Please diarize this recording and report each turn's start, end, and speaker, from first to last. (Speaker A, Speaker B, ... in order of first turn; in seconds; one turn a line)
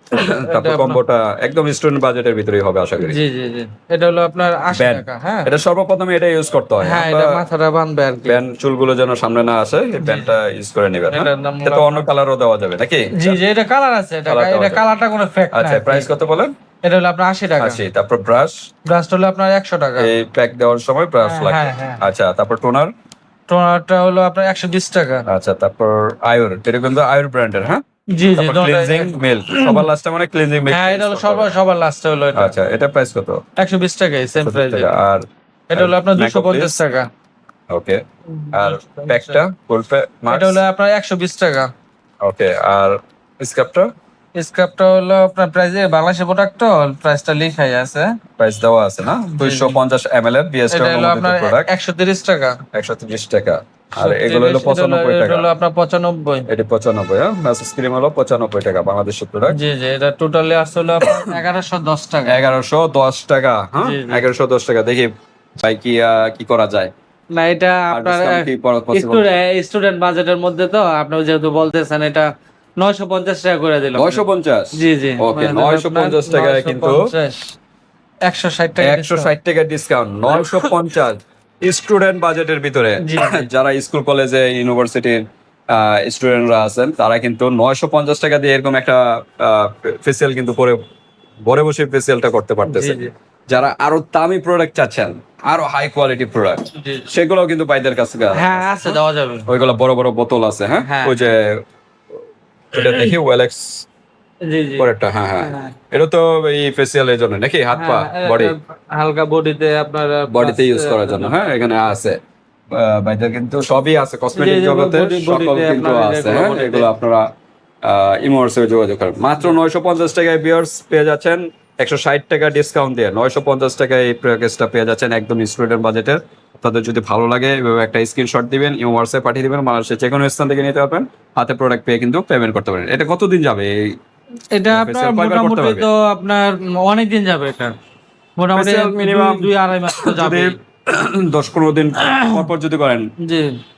Speaker A: 0.1-3.2
Speaker B: 0.4-1.0
Speaker B: 3.0-5.5
Speaker A: 4.7-7.4
Speaker B: 6.8-8.4
Speaker A: 8.2-13.4
Speaker B: 10.0-10.3
Speaker B: 11.1-12.0
Speaker B: 13.2-16.1
Speaker A: 14.3-14.8
Speaker A: 15.5-16.5
Speaker B: 16.8-17.8
Speaker A: 17.6-18.7
Speaker B: 18.9-20.1
Speaker A: 20.0-22.9
Speaker B: 21.2-22.0
Speaker B: 23.5-25.3
Speaker A: 25.3-27.8
Speaker B: 28.1-29.9
Speaker A: 28.4-31.5
Speaker B: 30.7-32.5
Speaker A: 32.3-33.4
Speaker B: 33.6-35.0
Speaker A: 34.4-35.2
Speaker B: 35.7-37.1
Speaker A: 35.7-36.8
Speaker A: 37.7-40.6
Speaker B: 38.3-39.4
Speaker B: 40.3-41.7
Speaker A: 42.2-43.9
Speaker B: 44.4-48.1
Speaker A: 48.4-51.7
Speaker B: 49.4-49.8
Speaker B: 50.7-52.6
Speaker A: 52.7-55.5
Speaker B: 54.0-56.5
Speaker A: 56.5-59.6
Speaker B: 59.5-62.4
Speaker A: 61.0-61.4
Speaker A: 62.3-66.9
Speaker B: 63.8-64.2
Speaker B: 67.3-72.3
Speaker A: 67.9-69.2
Speaker B: 72.8-74.2
Speaker A: 74.0-77.1
Speaker B: 74.8-77.5
Speaker B: 78.3-79.3
Speaker A: 78.8-90.8
Speaker B: 80.3-80.8
Speaker B: 83.0-83.5
Speaker A: 91.5-101.6
Speaker B: 92.7-93.1
Speaker B: 96.7-97.1
Speaker B: 98.3-99.5
Speaker B: 100.9-101.3
Speaker A: 102.7-103.9
Speaker B: 102.8-103.1
Speaker B: 104.5-105.7
Speaker A: 104.8-108.5
Speaker B: 107.7-111.3
Speaker A: 110.3-112.2
Speaker A: 112.7-117.3
Speaker B: 114.3-116.9
Speaker A: 117.8-133.7
Speaker B: 134.6-137.7
Speaker A: 134.7-135.9
Speaker B: 138.4-140.5
Speaker A: 138.6-143.1
Speaker B: 142.0-142.4
Speaker B: 143.2-143.6